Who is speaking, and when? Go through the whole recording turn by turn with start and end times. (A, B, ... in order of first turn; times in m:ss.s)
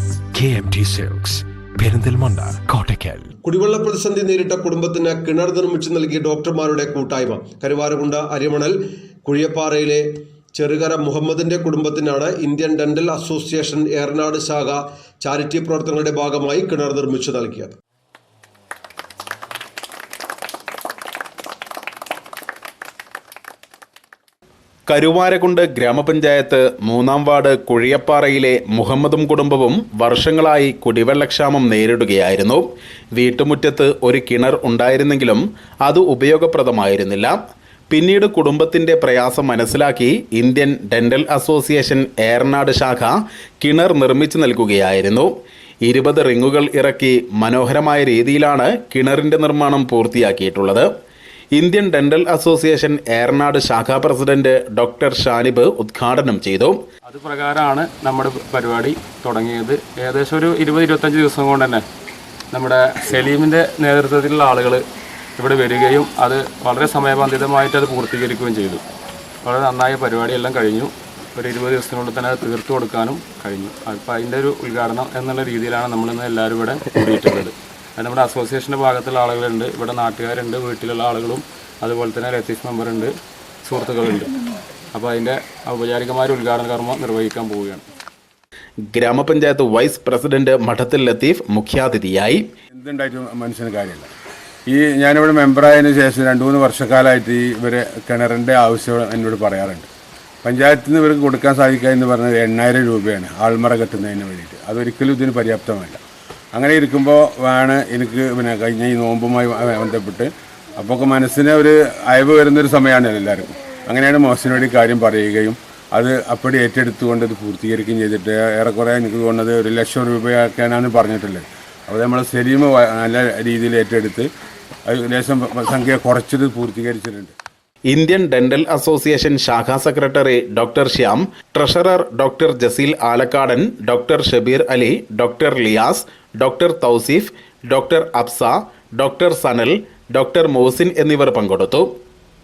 0:00.3-0:03.3 A
0:03.4-0:17.8 B
0:24.9-0:37.4 C
0:37.9-0:50.9 C
0:51.6-0:56.8 C
0:57.1-1:01.8 D
1:02.5-1:04.8 D
1:05.4-1:08.8 D
1:09.4-1:24.3 D
1:24.9-1:27.8 D
1:28.9-1:32.5 C
1:32.7-1:34.1 E
1:34.7-1:39.9 E
1:40.4-1:46.0 E
1:46.6-2:04.3 E
2:04.9-2:07.3 E
2:07.9-2:21.9 C